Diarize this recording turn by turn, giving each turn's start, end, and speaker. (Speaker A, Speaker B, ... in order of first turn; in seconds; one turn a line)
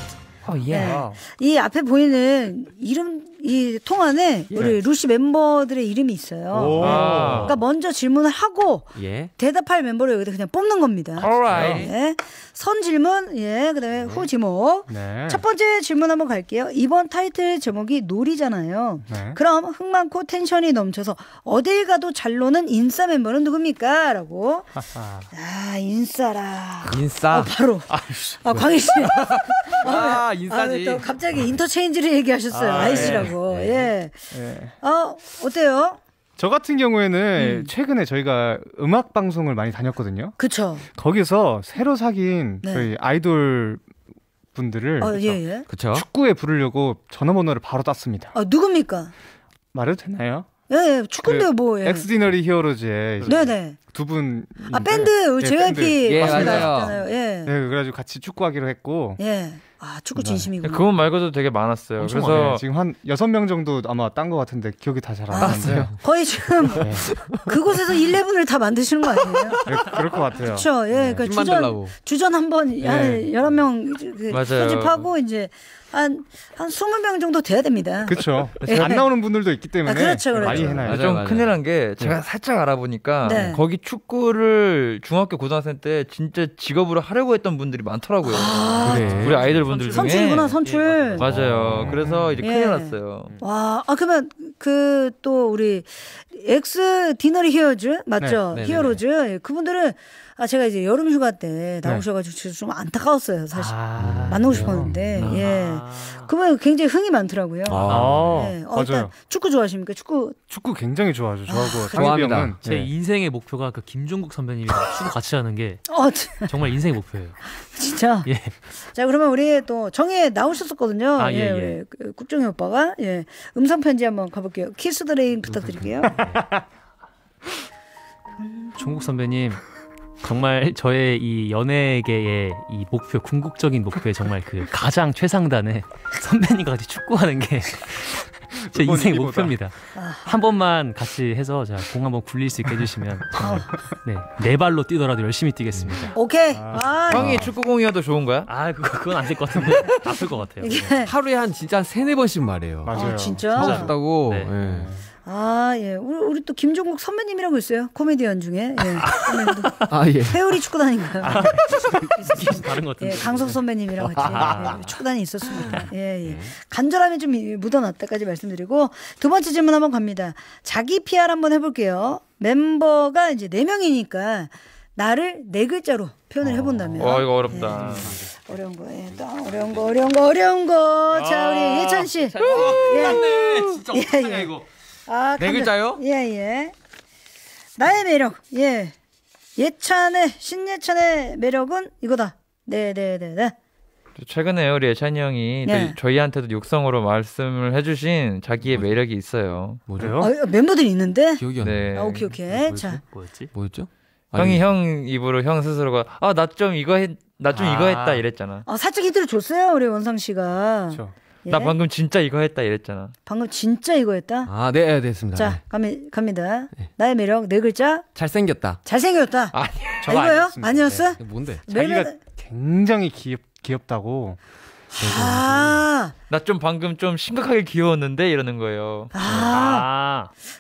Speaker A: 0.7-24.7
Speaker B: 0.7-1.2
Speaker B: 6.5-7.6
Speaker C: 6.8-7.6
Speaker D: 8.9-9.3
Speaker C: 11.2-11.9
Speaker B: 11.5-11.9
Speaker D: 11.5-11.8
Speaker D: 13.9-14.3
Speaker B: 14.9-15.4
Speaker B: 19.1-19.4
Speaker B: 24.9-25.3
Speaker A: 25.3-34.3
Speaker D: 26.9-27.6
Speaker B: 27.9-28.4
Speaker D: 28.5-31.1
Speaker B: 32.5-33.3
Speaker E: 32.8-33.3
Speaker D: 33.1-33.9
Speaker B: 34.3-34.7
Speaker A: 34.8-36.0
Speaker B: 36.4-40.4
Speaker A: 37.4-37.7
Speaker A: 40.4-40.9
Speaker B: 40.9-43.9
Speaker A: 42.6-42.9
Speaker B: 44.5-45.4
Speaker A: 45.0-45.7
Speaker D: 45.7-46.1
Speaker B: 45.9-48.4
Speaker A: 48.4-49.1
Speaker B: 49.7-50.5
Speaker A: 50.7-52.1
Speaker B: 51.2-56.8
Speaker E: 53.2-53.5
Speaker A: 53.2-53.8
Speaker A: 54.7-57.5
Speaker D: 56.0-57.0
Speaker B: 57.4-59.2
Speaker A: 59.2-60.9
Speaker B: 60.1-60.5
Speaker C: 60.6-62.6
Speaker E: 62.0-62.6
Speaker B: 62.1-66.0
Speaker A: 65.3-69.7
Speaker D: 65.4-66.0
Speaker D: 66.6-67.4
Speaker B: 66.8-67.1
Speaker B: 69.7-71.2
Speaker A: 70.4-79.1
Speaker D: 71.2-71.9
Speaker B: 72.8-73.3
Speaker C: 74.3-75.1
Speaker B: 78.1-81.2
Speaker A: 79.8-80.9
Speaker D: 80.4-81.6
Speaker C: 80.6-90.6
Speaker A: 83.2-83.6
Speaker A: 88.2-89.1
Speaker D: 88.8-89.6
Speaker E: 88.8-91.3
Speaker A: 89.9-91.2
Speaker C: 91.1-93.3
Speaker D: 91.2-92.2
Speaker B: 91.7-92.4
Speaker A: 92.4-110.4
Speaker D: 98.5-99.0
Speaker B: 103.5-105.3
Speaker D: 104.0-105.1
Speaker C: 105.1-105.5
Speaker E: 105.3-106.3
Speaker D: 107.7-108.5
Speaker B: 107.9-109.1
Speaker E: 107.9-108.2
Speaker B: 110.5-112.9
Speaker A: 111.5-112.2
Speaker D: 111.9-112.6
Speaker E: 112.6-117.4
Speaker A: 115.9-116.5
Speaker A: 117.6-118.3
Speaker E: 118.3-118.5
Speaker A: 118.9-126.2
Speaker E: 121.2-121.8
Speaker B: 126.0-126.6
Speaker E: 126.2-126.5
Speaker A: 128.4-129.1
Speaker E: 128.8-129.6
Speaker E: 130.2-146.2
Speaker B: 138.8-139.6
Speaker A: 139.9-140.3
Speaker B: 143.4-143.6
Speaker A: 143.4-143.7
Speaker A: 146.1-147.5
Speaker B: 146.5-147.5
Speaker C: 147.1-148.5
Speaker E: 148.5-151.0
Speaker A: 150.6-151.1
Speaker D: 151.0-154.9
Speaker B: 152.8-153.9
Speaker A: 152.9-153.9
Speaker E: 153.6-154.5
Speaker B: 154.6-155.0
Speaker A: 155.3-161.6
Speaker E: 159.1-159.9
Speaker D: 159.9-160.4
Speaker E: 161.2-163.6
Speaker A: 162.2-184.5
Speaker E: 164.2-164.9
Speaker D: 164.3-164.7
Speaker D: 165.7-166.5
Speaker D: 176.5-178.4
Speaker C: 177.0-178.1
Speaker E: 177.8-178.1
Speaker D: 179.3-180.0
Speaker D: 181.9-184.7
Speaker A: 185.1-186.7
Speaker D: 185.4-186.0
Speaker A: 187.8-188.9
Speaker A: 189.6-193.6
Speaker C: 194.2-199.8
Speaker A: 195.6-196.0
Speaker D: 198.6-198.9
Speaker D: 199.9-200.3
Speaker B: 199.9-200.3
Speaker A: 200.2-203.0
Speaker D: 201.4-204.7
Speaker C: 201.6-202.3
Speaker E: 203.1-203.5
Speaker C: 204.3-208.7
Speaker E: 207.6-208.2
Speaker A: 208.7-211.8
Speaker C: 211.5-213.1
Speaker A: 213.3-214.5
Speaker D: 214.4-215.6
Speaker A: 215.3-218.1
Speaker D: 218.2-218.8
Speaker A: 218.8-222.2
Speaker C: 219.5-220.1
Speaker B: 220.0-221.1
Speaker D: 221.2-221.6
Speaker B: 221.7-224.4
Speaker A: 224.9-226.1
Speaker D: 225.0-225.9
Speaker C: 226.3-229.1
Speaker A: 229.1-229.9
Speaker D: 229.3-229.5
Speaker E: 229.4-230.3